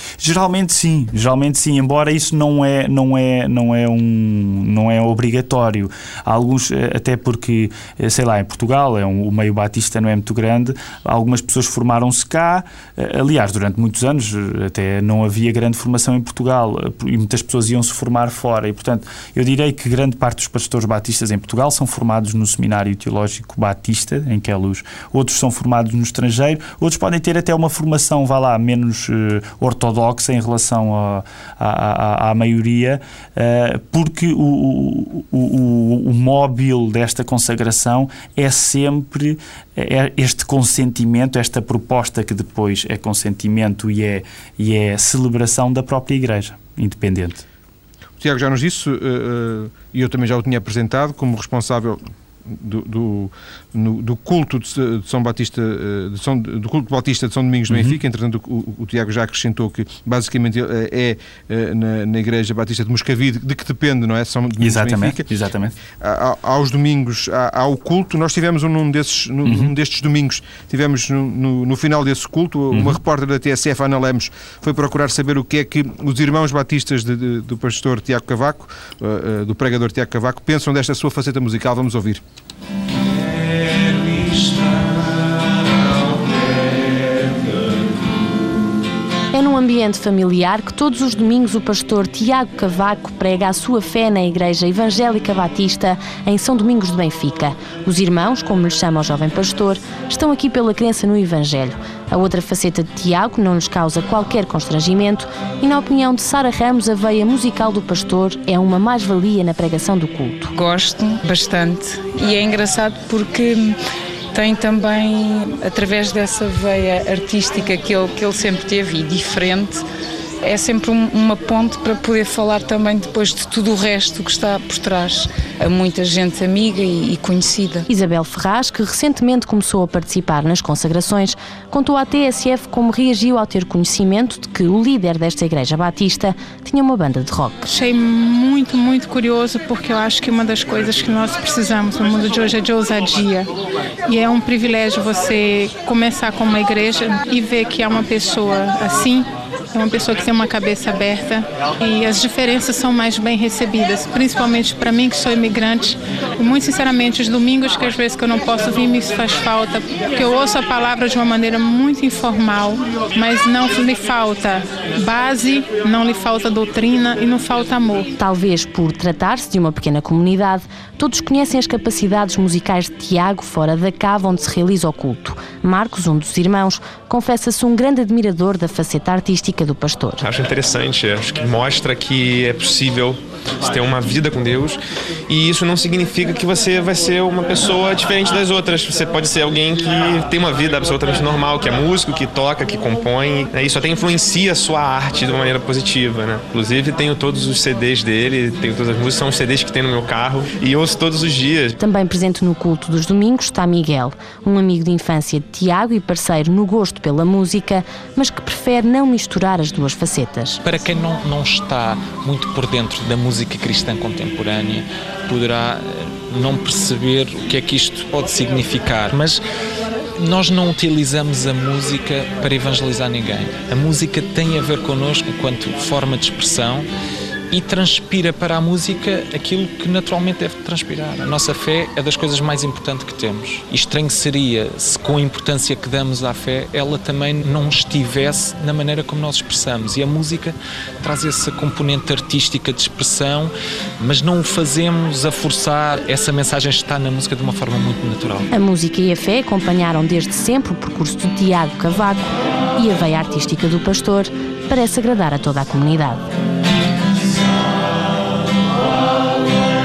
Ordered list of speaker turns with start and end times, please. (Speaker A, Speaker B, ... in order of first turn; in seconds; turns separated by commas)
Speaker A: 0.2-47.5, Speaker B: 48.2-65.3, Speaker A: 57.7-58.0, Speaker A: 64.6-65.8, Speaker B: 66.0-82.2, Speaker A: 69.5-69.7, Speaker A: 72.7-73.0, Speaker C: 89.3-110.5, Speaker D: 110.5-113.8, Speaker D: 114.3-119.8, Speaker D: 120.4-127.8, Speaker C: 127.9-137.6, Speaker E: 137.7-143.5, Speaker E: 144.1-168.1, Speaker C: 168.2-180.2, Speaker F: 180.2-201.8, Speaker C: 201.8-210.6, Speaker G: 210.6-219.4, Speaker G: 220.2-226.9, Speaker G: 227.5-248.5, Speaker C: 248.5-256.3